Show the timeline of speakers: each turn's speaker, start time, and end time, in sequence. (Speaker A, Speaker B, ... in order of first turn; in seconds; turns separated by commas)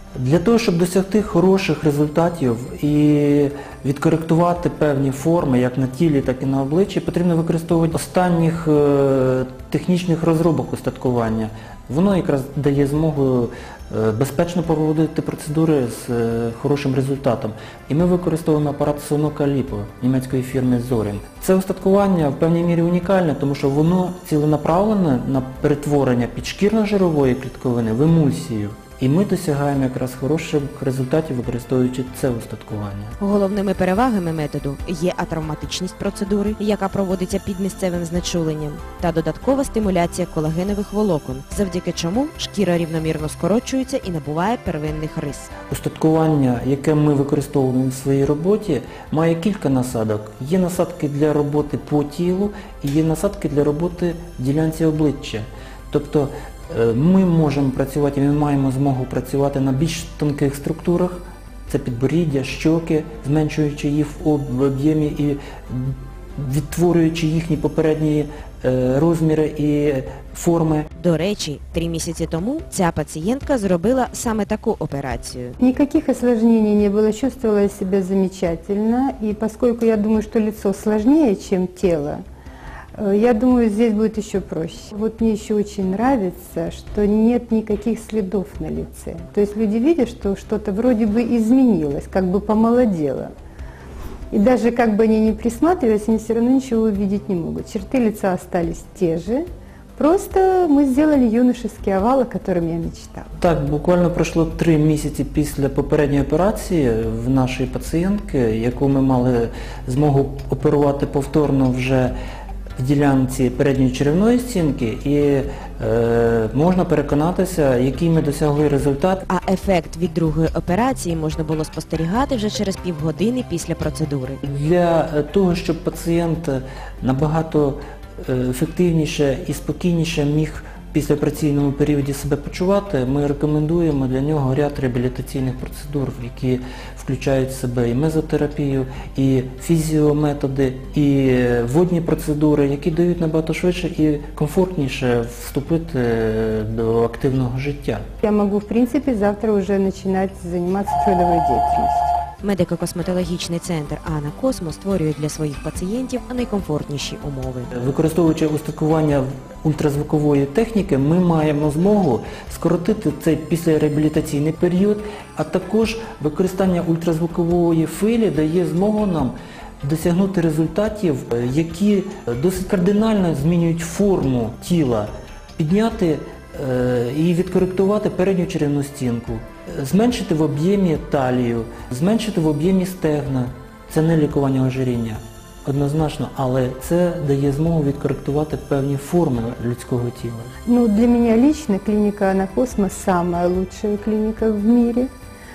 Speaker A: 0.1-33.1, Speaker B: 33.2-45.5, Speaker A: 45.7-70.9, Speaker B: 71.0-75.6, Speaker C: 75.6-82.2, Speaker C: 83.0-93.3, Speaker C: 94.3-99.4, Speaker C: 100.0-103.3, Speaker A: 103.4-112.1, Speaker A: 112.8-119.2, Speaker B: 119.3-124.4, Speaker A: 124.4-148.0, Speaker C: 148.2-152.1, Speaker B: 152.4-157.7, Speaker A: 157.7-190.5, Speaker C: 190.7-195.1